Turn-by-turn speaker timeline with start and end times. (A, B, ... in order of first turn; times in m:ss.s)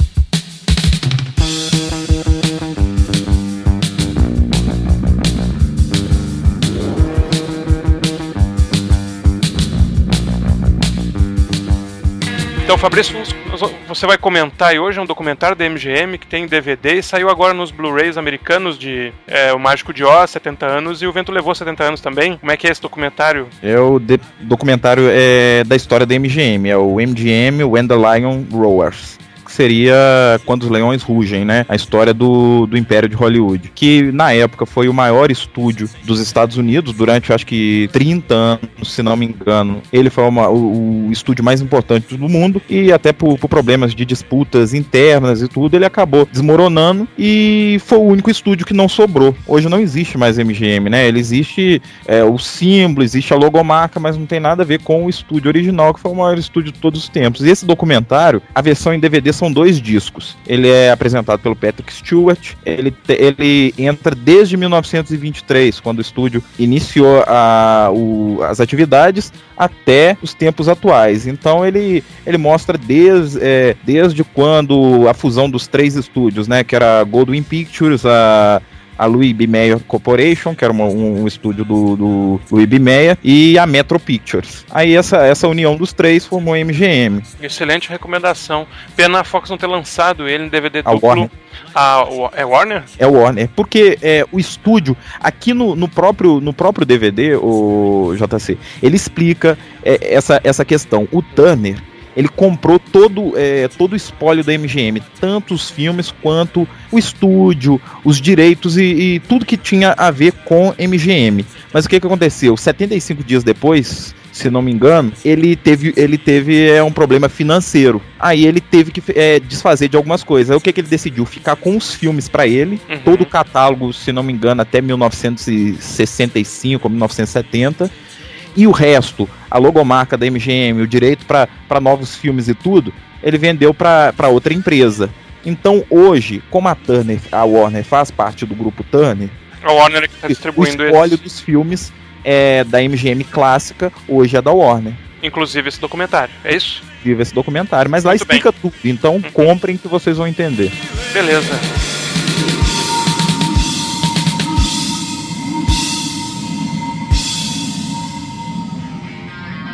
0:12.6-0:23.5 A
0:23.6-1:27.2 B
1:27.4-1:32.9 A
1:30.8-1:31.3 B
1:33.0-2:07.9 B
2:02.9-2:03.3 A
2:08.6-2:19.4 B
2:19.6-2:21.2 A
2:20.3-2:25.0 B
2:25.2-2:26.9 A
2:27.0-2:30.8 B
2:28.0-2:28.4 A
2:31.1-2:31.6 A